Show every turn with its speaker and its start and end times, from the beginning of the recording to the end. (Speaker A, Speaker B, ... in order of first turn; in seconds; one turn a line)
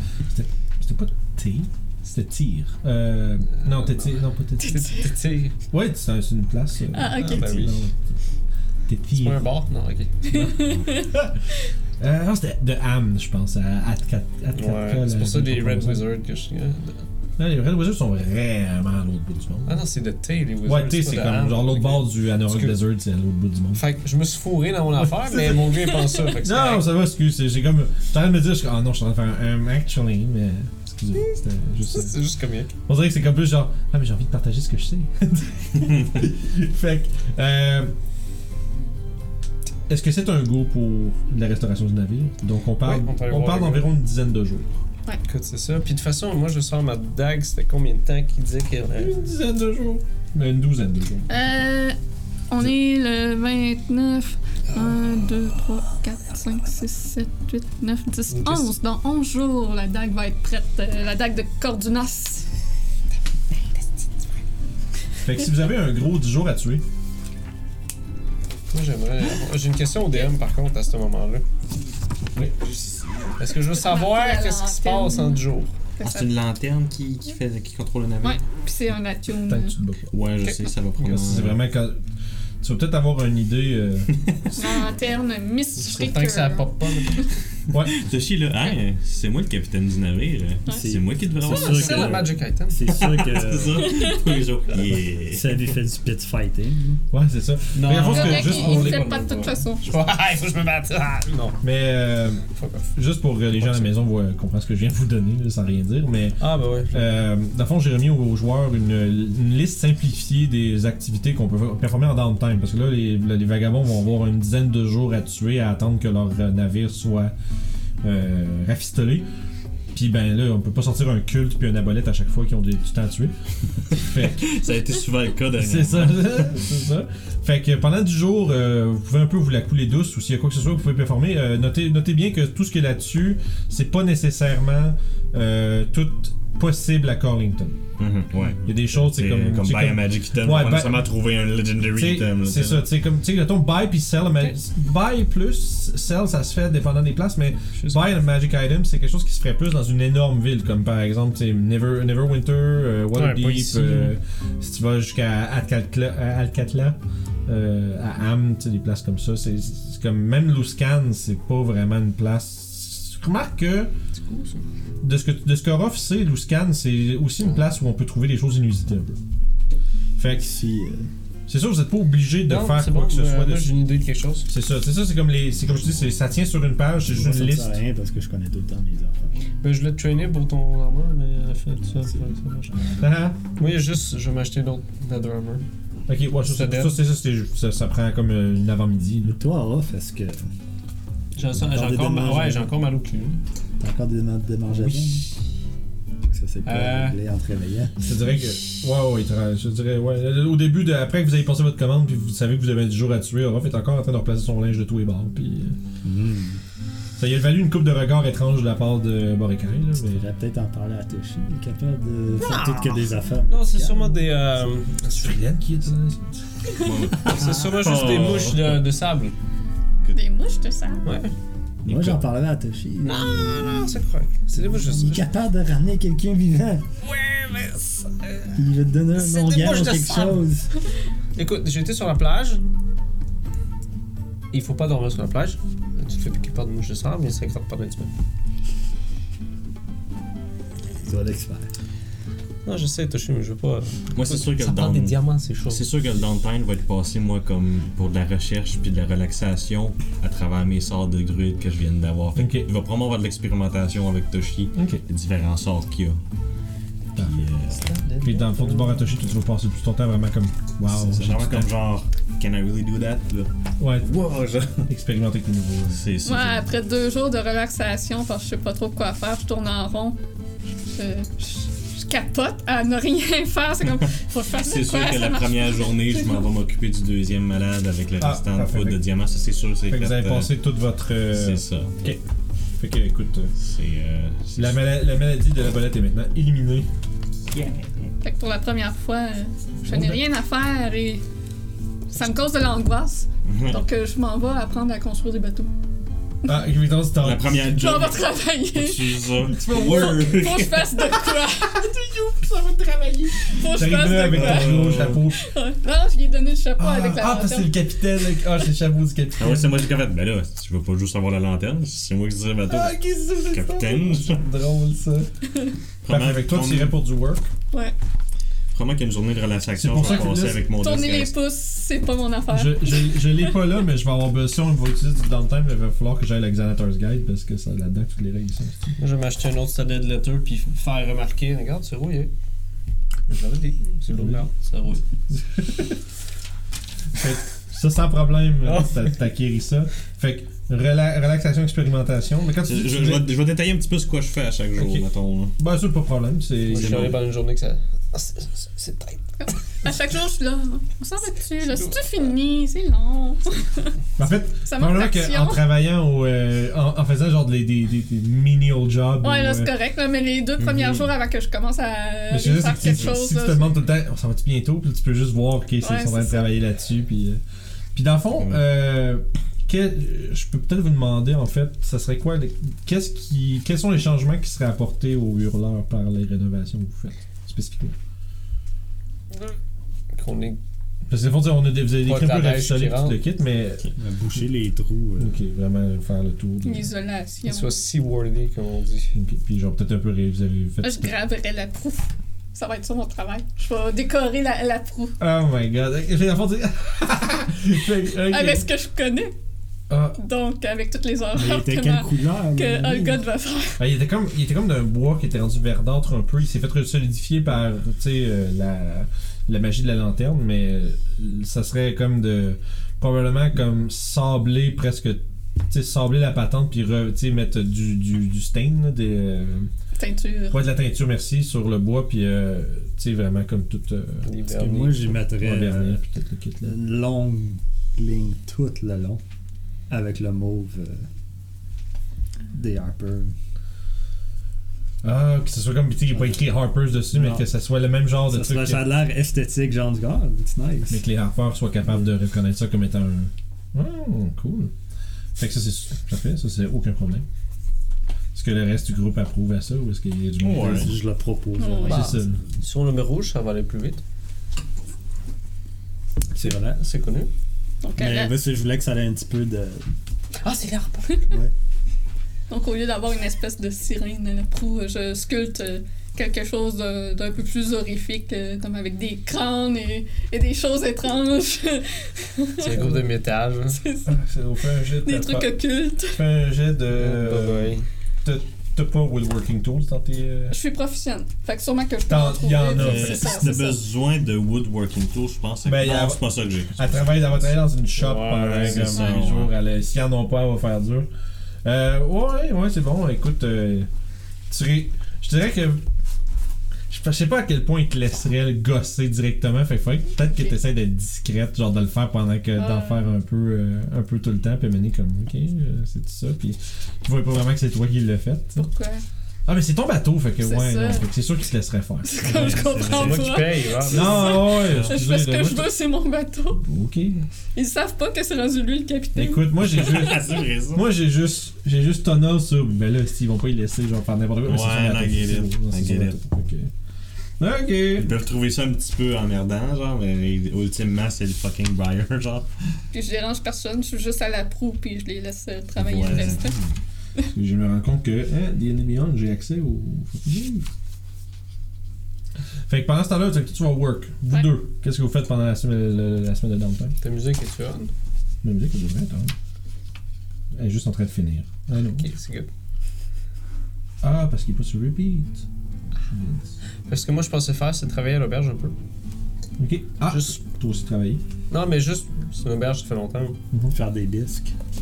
Speaker A: 0.2-5.0
Speaker B: 3.6-5.5
Speaker C: 4.6-5.1
Speaker A: 5.7-8.1
Speaker C: 6.9-7.5
Speaker B: 7.2-7.8
Speaker A: 8.9-9.4
Speaker B: 9.1-10.2
Speaker A: 10.2-11.4
Speaker C: 10.3-11.0
Speaker A: 12.0-16.0
Speaker B: 14.5-17.1
Speaker A: 17.4-19.9
Speaker B: 19.6-22.8
Speaker A: 20.6-23.8
Speaker B: 23.7-26.9
Speaker A: 25.0-32.2
Speaker B: 31.1-32.7
Speaker A: 32.9-37.9
Speaker A: 39.9-44.7
Speaker B: 42.8-43.9
Speaker B: 45.2-49.1
Speaker A: 49.0-51.3
Speaker C: 51.3-52.0
Speaker C: 52.5-62.5
Speaker B: 58.3-58.7
Speaker C: 63.5-64.1
Speaker A: 65.2-66.8
Speaker B: 68.7-71.4
Speaker A: 72.3-72.7
Speaker D: 72.6-73.3
Speaker B: 73.4-75.8
Speaker C: 73.8-75.4
Speaker C: 76.0-76.3
Speaker D: 76.0-78.4
Speaker C: 78.2-79.8
Speaker A: 79.5-80.1
Speaker D: 80.1-81.6
Speaker B: 80.4-81.1
Speaker A: 81.0-82.0
Speaker A: 82.6-84.1
Speaker C: 84.6-87.2
Speaker B: 85.8-87.3
Speaker A: 87.7-88.0
Speaker D: 87.7-92.3
Speaker E: 90.7-93.9
Speaker B: 91.5-92.8
Speaker D: 92.9-95.7
Speaker C: 93.8-94.3
Speaker E: 95.2-97.0
Speaker A: 97.1-99.0
Speaker B: 97.8-101.6
Speaker C: 98.0-99.8
Speaker A: 101.6-117.3
Speaker B: 102.5-102.8
Speaker B: 103.6-103.9
Speaker B: 106.4-107.1
Speaker A: 118.0-119.3
Speaker A: 119.9-123.3
Speaker A: 123.9-124.6
Speaker D: 124.0-126.6
Speaker A: 125.6-137.8
Speaker D: 138.0-142.8
Speaker A: 138.6-141.1
Speaker A: 141.9-163.9
Speaker B: 153.1-154.1
Speaker B: 164.2-164.6
Speaker A: 165.0-169.2
Speaker A: 170.2-170.5
Speaker E: 170.3-171.1
Speaker A: 171.5-173.8
Speaker B: 172.5-174.5
Speaker A: 174.5-177.8
Speaker E: 177.1-179.4
Speaker B: 179.6-182.8
Speaker A: 183.0-183.4
Speaker B: 183.6-185.6
Speaker A: 186.1-189.4
Speaker B: 186.4-187.0
Speaker E: 189.2-190.5
Speaker B: 191.3-193.4
Speaker E: 191.5-192.7
Speaker E: 193.8-195.3
Speaker B: 194.7-195.1
Speaker E: 196.2-198.1
Speaker B: 196.6-197.2
Speaker A: 198.0-205.8
Speaker E: 206.0-206.6
Speaker A: 207.2-210.2
Speaker E: 210.0-214.2
Speaker B: 212.4-215.5
Speaker A: 215.1-216.4
Speaker D: 216.7-218.8
Speaker E: 217.2-217.7
Speaker B: 217.2-219.3
Speaker C: 220.1-221.1
Speaker B: 221.0-221.3
Speaker D: 221.8-222.3
Speaker E: 221.8-223.7
Speaker B: 223.0-225.2
Speaker E: 224.5-226.9
Speaker B: 227.0-230.4
Speaker E: 228.5-230.8
Speaker B: 231.3-232.7
Speaker B: 234.5-238.1
Speaker E: 241.0-241.7
Speaker B: 242.6-245.8
Speaker D: 244.1-256.2
Speaker A: 252.3-252.7
Speaker A: 254.7-255.0
Speaker D: 257.1-258.0
Speaker B: 257.7-259.1
Speaker A: 258.2-261.7
Speaker D: 260.8-264.9
Speaker A: 263.8-264.1
Speaker A: 264.9-266.1
Speaker D: 265.9-266.7
Speaker C: 266.2-270.2
Speaker C: 270.9-276.4
Speaker D: 274.6-280.5
Speaker A: 278.2-279.0
Speaker A: 279.9-282.2
Speaker D: 281.3-282.0
Speaker A: 282.7-283.5
Speaker D: 283.6-284.8
Speaker A: 284.5-286.9
Speaker D: 287.5-288.1
Speaker C: 288.2-291.2
Speaker A: 289.9-290.2
Speaker C: 292.1-295.7
Speaker D: 293.4-293.8
Speaker A: 296.4-297.7
Speaker D: 297.2-301.1
Speaker C: 297.7-301.9
Speaker A: 299.4-300.4
Speaker A: 301.1-305.5
Speaker C: 303.4-308.4
Speaker D: 304.0-305.3
Speaker A: 306.8-309.7
Speaker D: 309.4-314.4
Speaker A: 312.6-315.3
Speaker D: 316.0-316.9
Speaker A: 316.1-317.5
Speaker D: 318.7-321.3
Speaker A: 319.8-320.6
Speaker C: 320.0-323.4
Speaker A: 322.5-329.0
Speaker B: 329.0-332.3
Speaker B: 333.3-335.0
Speaker A: 334.1-334.4
Speaker A: 335.3-336.0
Speaker A: 337.1-343.3
Speaker B: 338.6-339.1
Speaker D: 342.6-345.5
Speaker A: 344.8-345.1
Speaker A: 345.6-347.2
Speaker B: 346.6-349.3
Speaker D: 346.8-347.2
Speaker C: 349.4-353.9
Speaker B: 351.7-352.1
Speaker A: 354.2-359.7
Speaker C: 354.6-355.6
Speaker C: 359.2-363.6
Speaker A: 362.3-367.4
Speaker D: 362.8-363.1
Speaker C: 365.8-366.5
Speaker A: 367.9-378.0
Speaker B: 380.1-380.6
Speaker A: 381.1-383.9
Speaker B: 382.0-383.2
Speaker E: 384.0-385.4
Speaker A: 385.2-386.9
Speaker C: 386.6-387.7
Speaker B: 387.4-389.1
Speaker A: 389.1-391.1
Speaker C: 390.8-395.2
Speaker A: 395.2-398.7
Speaker C: 398.3-399.3
Speaker A: 399.9-400.2
Speaker C: 400.1-403.8
Speaker E: 401.3-403.2
Speaker A: 403.8-419.7
Speaker C: 420.0-420.6
Speaker A: 420.5-424.2
Speaker B: 424.2-425.2
Speaker E: 424.4-426.0
Speaker A: 425.4-426.8
Speaker E: 426.6-429.2
Speaker E: 429.9-431.1
Speaker E: 432.5-433.4
Speaker A: 435.0-438.9
Speaker E: 436.1-436.4
Speaker E: 437.1-437.5
Speaker E: 438.2-441.0
Speaker A: 440.9-444.7
Speaker A: 445.4-447.2
Speaker A: 448.3-450.9
Speaker D: 450.4-450.9
Speaker E: 450.6-452.6
Speaker C: 451.6-452.1
Speaker A: 451.9-452.4
Speaker B: 452.6-454.0
Speaker E: 456.3-456.8
Speaker B: 456.4-457.3
Speaker C: 457.8-458.4
Speaker E: 458.0-459.9
Speaker B: 460.4-461.2
Speaker C: 462.5-473.0
Speaker B: 472.6-473.8
Speaker C: 473.7-474.1
Speaker A: 474.1-480.5
Speaker C: 475.0-476.2
Speaker B: 476.9-477.9
Speaker C: 480.5-483.8
Speaker A: 482.1-483.6
Speaker D: 482.7-487.4
Speaker A: 485.6-491.1
Speaker B: 487.9-489.0
Speaker D: 488.6-489.5
Speaker A: 491.6-493.9
Speaker A: 494.5-495.9
Speaker A: 496.9-508.6
Speaker C: 502.6-503.1
Speaker C: 508.6-509.0
Speaker A: 509.5-512.8
Speaker C: 510.4-511.1
Speaker C: 512.0-516.6
Speaker D: 512.2-513.3
Speaker B: 512.7-514.6
Speaker A: 513.9-515.7
Speaker D: 514.6-515.0
Speaker A: 516.6-517.2
Speaker C: 517.5-520.1
Speaker A: 519.1-526.7
Speaker D: 519.6-520.9
Speaker D: 524.4-526.2
Speaker A: 527.4-528.1
Speaker D: 528.0-532.5
Speaker C: 532.9-536.5
Speaker D: 535.8-536.7
Speaker A: 536.1-536.4
Speaker A: 537.3-540.6
Speaker A: 542.7-547.0
Speaker B: 547.0-547.9
Speaker A: 548.4-549.4
Speaker A: 550.5-552.1
Speaker B: 551.9-552.5
Speaker A: 554.0-555.5
Speaker A: 556.1-556.6
Speaker B: 556.9-558.8
Speaker A: 559.6-561.2
Speaker B: 560.1-560.4
Speaker B: 561.5-563.4
Speaker E: 563.7-564.5